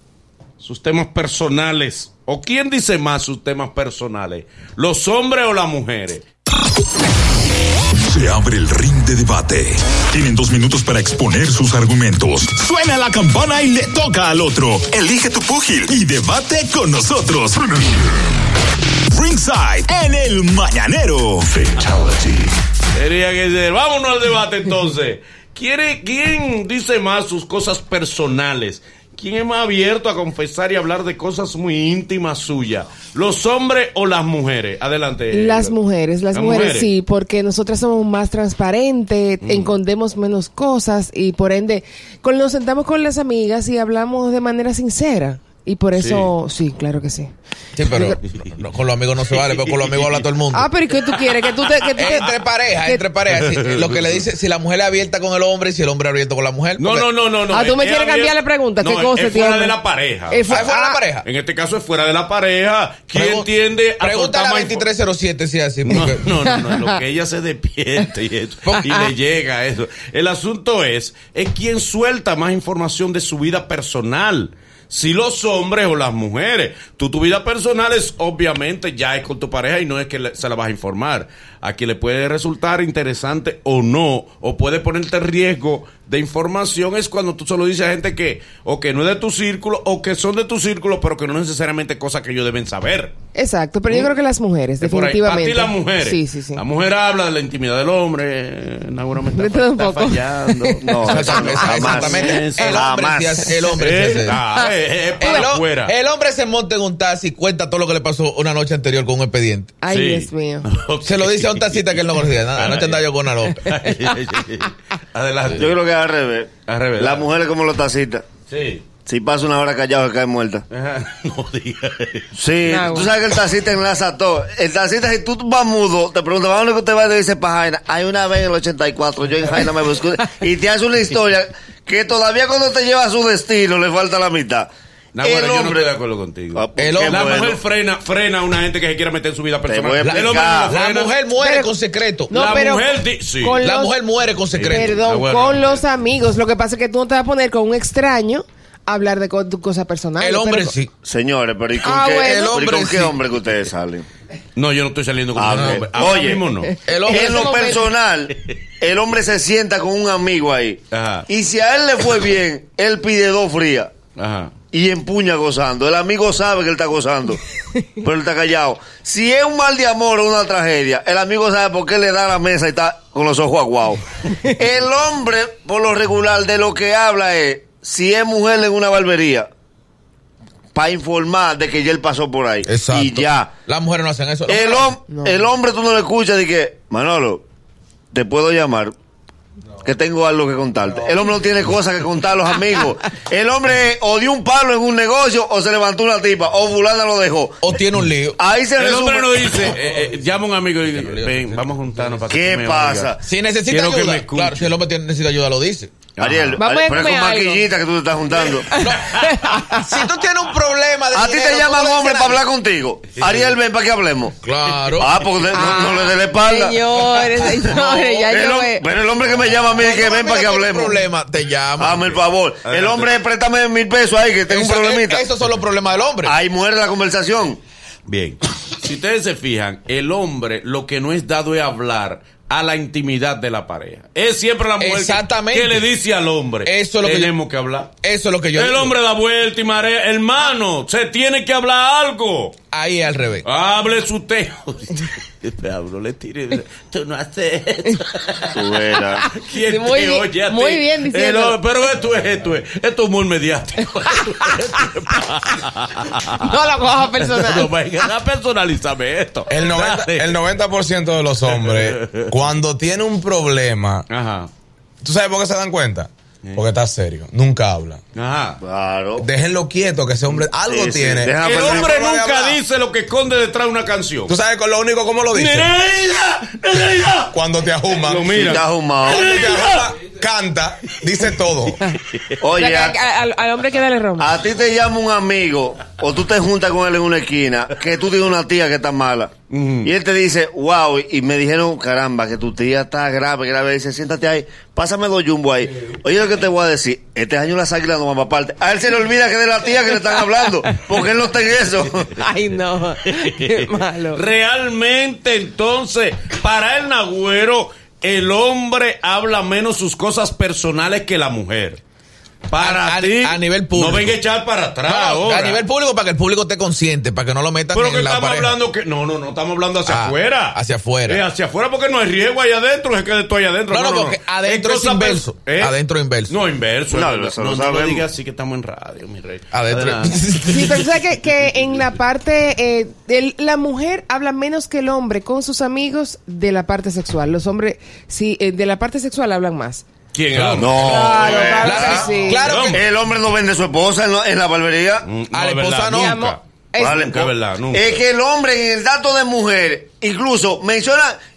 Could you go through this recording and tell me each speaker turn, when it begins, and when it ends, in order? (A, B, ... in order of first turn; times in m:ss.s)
0:00.6-0:06.2 A
0:08.0-0:18.3 B
0:19.1-0:22.5 B
0:22.9-0:35.7 A
0:35.3-0:47.3 C
0:36.3-0:36.9 A
0:39.4-0:39.7 A
0:46.0-0:46.3 A
0:47.8-0:50.7 D
0:47.9-0:48.2 C
0:48.2-0:48.6 A
0:49.3-0:50.3 A
0:50.5-0:52.3 C
0:51.6-0:51.9 A
0:52.0-0:57.1 D
0:53.3-0:54.2 A
0:56.8-1:00.7 A
0:57.5-0:59.8 C
1:00.3-1:01.0 C
1:00.5-1:01.2 D
1:01.2-1:04.9 A
1:03.1-1:03.5 D
1:04.0-1:06.3 D
1:05.9-1:33.1 A
1:08.7-1:09.0 D
1:33.3-1:36.6 C
1:34.8-1:42.9 A
1:39.3-1:40.8 C
1:40.8-1:43.5 E
1:41.0-1:44.4 D
1:41.8-1:42.8 C
1:43.7-1:45.9 A
1:45.2-1:49.8 D
1:45.2-1:45.4 C
1:49.8-1:50.7 C
1:49.9-1:55.8 A
1:51.0-1:53.8 D
1:55.6-1:58.3 E
1:56.7-1:57.3 A
1:58.5-1:58.8 A
1:59.0-2:00.6 E
2:00.7-2:02.4 A
2:02.4-2:14.7 E
2:02.6-2:03.1 C
2:15.1-2:21.1 A
2:15.2-2:15.9 E
2:16.5-2:17.6 E
2:16.8-2:17.4 D
2:19.7-2:20.7 E
2:20.0-2:22.3 D
2:21.4-2:21.7 C
2:22.3-2:23.9 C
2:22.3-2:23.6 A
2:23.5-2:25.0 D
2:24.5-2:25.8 A
2:24.7-2:30.7 C
2:30.2-2:30.9 D
2:31.0-2:34.1 E
2:31.8-2:32.6 C
2:32.2-2:33.2 D
2:34.6-2:36.8 A
2:35.4-2:36.5 E
2:35.5-2:35.8 D
2:36.6-2:37.9 C
2:36.8-2:37.6 D
2:37.1-2:43.9 E
2:40.9-2:41.3 A
2:44.2-2:44.5 A
2:44.7-2:47.4 E
2:48.0-2:59.5 E
3:00.8-3:03.5 E
3:02.7-3:04.9 D
3:04.5-3:07.4 E
3:05.1-3:05.4 C
3:08.1-3:08.9 E
3:09.8-3:17.8 E
3:17.6-3:18.4 D
3:18.4-3:19.7 E
3:18.8-3:23.1 A
3:20.9-3:22.2 D
3:22.3-3:23.2 E
3:23.2-3:25.9 D
3:23.7-3:24.7 A
3:26.2-3:26.6 A
3:26.2-3:28.7 E
3:26.6-3:27.6 C
3:28.7-3:29.9 C
3:28.8-3:32.4 D
3:31.1-3:34.4 E
3:33.1-3:33.6 A
3:34.4-3:35.2 D
3:34.9-3:37.0 E
3:35.5-3:38.8 C
3:38.3-3:41.0 E
3:39.8-3:42.2 D
3:41.8-3:45.2 E
3:42.6-3:43.1 A
3:44.5-3:46.4 D
3:46.2-3:47.6 E
3:48.1-3:57.9 A
3:54.8-3:55.8 D
3:56.6-3:57.3 D
3:58.0-3:58.9 D
3:58.5-4:02.6 A
4:02.7-4:03.5 D
4:03.4-4:16.6 A
4:08.5-4:09.2 E
4:09.2-4:11.6 C
4:16.4-4:17.7 C
4:17.2-4:20.4 A
4:19.5-4:24.0 F
4:21.5-4:22.3 A
4:24.1-4:24.5 A
4:25.0-4:28.0 F
4:28.2-4:28.6 A
4:28.6-4:29.3 E
4:29.2-4:32.6 F
4:30.3-4:32.0 E
4:31.4-4:34.3 A
4:34.3-4:35.7 F
4:35.3-4:37.3 A
4:37.3-4:41.8 F
4:37.9-4:39.9 A
4:38.3-4:39.7 E
4:41.9-4:42.4 A
4:42.4-4:43.0 E
4:42.6-4:44.3 C
4:44.2-5:02.1 E
4:49.5-4:49.9 A
5:02.2-5:04.2 C
5:03.0-5:11.8 A
5:12.5-5:15.6 A
5:12.6-5:14.2 D
5:14.8-5:18.6 D
5:17.7-5:25.7 A
5:19.9-5:21.2 D
5:23.7-5:26.4 D
5:26.3-5:30.6 A
5:26.9-5:28.0 E
5:29.5-5:30.8 D
5:30.5-5:39.8 C
5:40.1-5:42.8 A
5:40.3-5:40.8 D
5:40.6-5:42.1 E
5:40.8-5:42.5 C
5:41.6-5:42.8 D
5:42.7-5:45.1 E
5:45.0-5:48.0 A
5:45.3-5:46.3 D
5:45.9-5:47.0 C
5:46.8-5:51.2 E